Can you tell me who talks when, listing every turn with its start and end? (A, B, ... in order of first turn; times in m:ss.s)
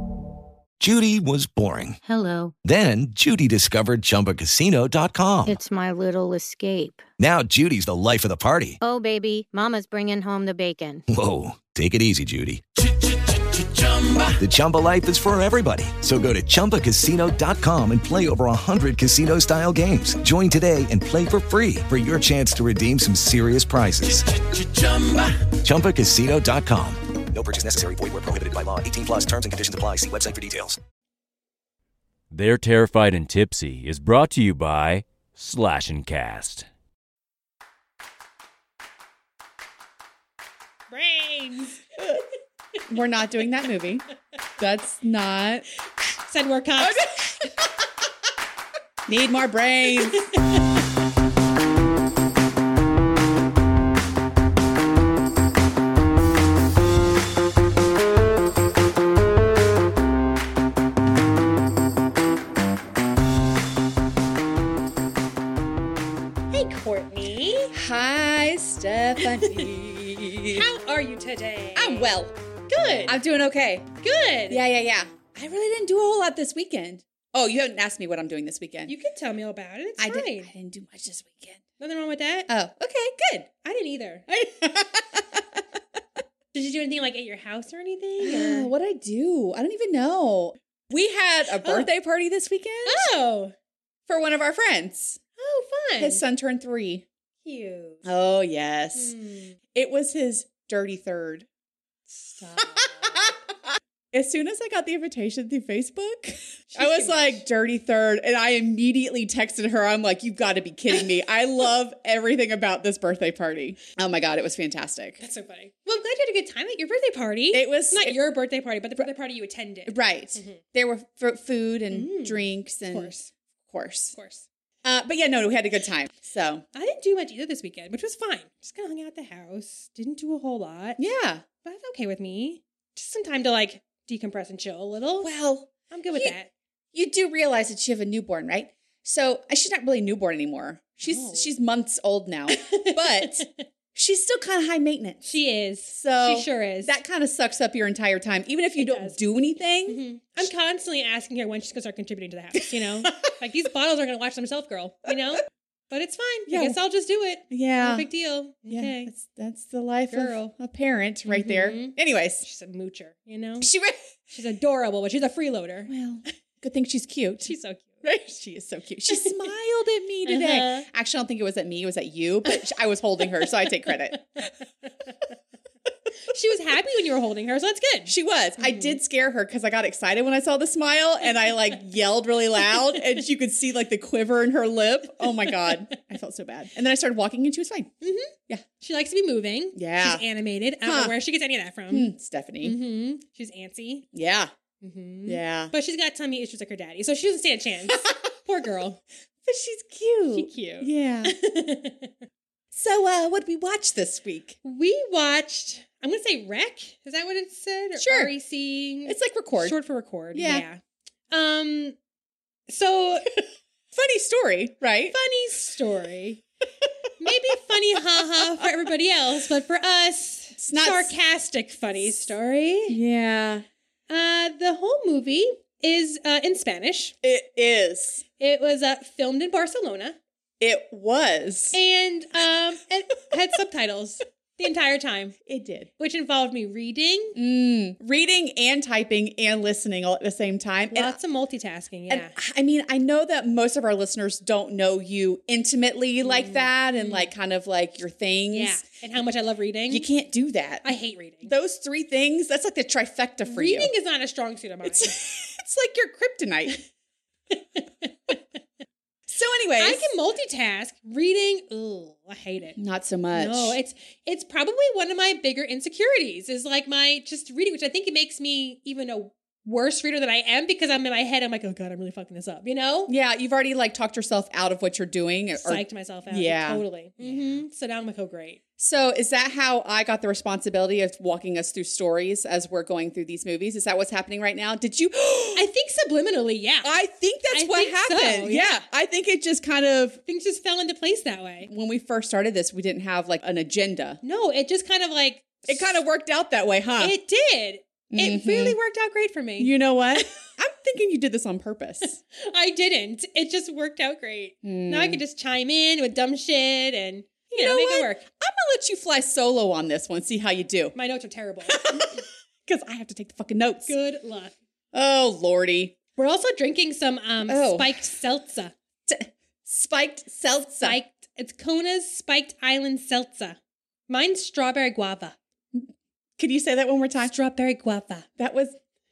0:00.8-0:02.0 A
0:02.0-0:02.5 B
0:02.6-0:05.6 A
0:05.5-0:07.1 B
0:07.2-0:08.8 A
0:08.8-0:11.0 B
0:11.1-0:12.6 A
0:14.3-0:30.8 A
0:32.3-0:36.7 C
0:40.9-0:42.0 D
0:42.9-0:44.1 E
0:44.6-0:45.7 E
0:46.3-0:47.4 D
0:46.8-0:47.5 E
0:49.1-0:50.3 E
0:50.1-0:50.8 D
1:06.5-1:07.7 D
1:07.7-1:10.7 E
1:09.2-1:09.7 D
1:10.5-1:12.2 D
1:11.8-1:12.3 E
1:12.7-1:13.2 D
1:13.1-1:13.9 E
1:14.0-1:14.6 D
1:14.5-1:19.0 E
1:18.9-1:20.5 D
1:20.0-1:21.6 E
1:21.8-1:22.5 D
1:22.5-1:23.5 E
1:23.6-1:24.3 D
1:24.3-1:25.6 E
1:26.5-1:28.7 D
1:28.2-1:33.1 E
1:31.6-1:31.9 D
1:32.9-1:33.5 D
1:34.1-1:35.2 E
1:35.4-1:36.2 D
1:36.0-1:37.0 E
1:37.4-1:38.1 D
1:38.0-1:39.1 E
1:39.0-1:39.6 D
1:39.7-1:41.5 E
1:42.1-1:43.4 D
1:42.6-1:43.3 E
1:44.1-1:55.2 E
1:46.7-1:47.4 D
1:55.2-2:00.6 D
1:57.5-1:58.2 E
1:59.9-2:03.1 E
2:01.9-2:03.3 D
2:03.7-2:04.2 E
2:04.2-2:04.5 D
2:04.8-2:06.6 E
2:06.8-2:11.0 D
2:11.0-2:11.4 E
2:11.6-2:15.3 D
2:15.2-2:16.4 E
2:15.9-2:16.5 D
2:16.9-2:25.4 E
2:21.0-2:21.5 D
2:22.5-2:23.5 D
2:25.2-2:26.9 D
2:25.9-2:30.5 E
2:28.8-2:29.2 D
2:29.9-2:39.1 D
2:36.5-2:36.8 E
2:37.5-2:38.1 E
2:38.7-2:42.4 E
2:40.1-2:40.5 D
2:41.3-2:43.7 D
2:43.6-2:44.0 E
2:44.3-2:45.9 D
2:45.9-2:54.5 E
2:47.4-2:48.0 D
2:50.2-2:50.9 D
2:53.4-2:55.1 D
2:56.3-2:59.0 D
2:58.1-3:07.9 E
3:02.7-3:03.1 D
3:05.2-3:05.8 D
3:08.0-3:12.1 D
3:09.8-3:10.2 E
3:10.8-3:11.1 E
3:11.9-3:12.8 E
3:12.6-3:14.1 D
3:14.1-3:14.5 E
3:14.8-3:19.0 D
3:15.3-3:15.7 E
3:19.5-3:21.4 E
3:20.3-3:22.2 D
3:22.7-3:24.6 E
3:24.6-3:30.8 D
3:28.0-3:28.3 E
3:29.0-3:29.8 E
3:30.3-3:30.6 E
3:31.3-3:32.0 D
3:32.7-3:33.3 D
3:33.9-3:35.2 E
3:35.1-3:36.4 D
3:37.2-3:43.0 D
3:40.6-3:41.1 E
3:42.0-3:42.3 E
3:42.9-3:43.7 E
3:44.1-3:47.2 D
3:47.2-3:48.2 E
3:48.4-3:50.2 D
3:50.6-3:51.8 E
3:51.7-3:55.4 D
3:55.5-3:55.9 E
3:56.0-3:57.4 D
3:57.4-4:01.2 E
4:00.9-4:02.4 D
4:02.1-4:08.8 E
4:06.2-4:07.3 D
4:08.5-4:10.1 D
4:09.9-4:10.9 E
4:10.8-4:11.6 D
4:11.4-4:13.9 E
4:13.5-4:15.2 D
4:14.8-4:16.8 E
4:17.5-4:18.4 D
4:19.3-4:20.1 E
4:19.8-4:22.8 D
4:22.8-4:23.8 E
4:23.3-4:33.1 D
4:33.1-4:37.7 E
4:35.6-4:38.6 D
4:38.8-4:45.7 E
4:45.5-4:46.9 D
4:46.8-4:50.2 E
4:47.5-4:48.8 D
4:50.3-4:51.7 D
4:51.6-4:54.2 E
4:54.2-4:56.0 D
4:55.7-4:57.2 E
4:57.0-4:59.7 D
4:58.1-4:58.8 E
4:59.6-5:02.2 E
5:02.3-5:08.2 D
5:04.6-5:05.2 E
5:07.5-5:11.0 E
5:11.0-5:12.2 D
5:11.7-5:13.9 E
5:13.9-5:14.6 D
5:14.9-5:16.0 E
5:16.2-5:18.7 D
5:17.5-5:18.2 E
5:19.1-5:21.0 E
5:20.8-5:23.6 D
5:24.1-5:25.4 D
5:25.7-5:27.3 E
5:27.2-5:28.3 D
5:28.4-5:28.8 E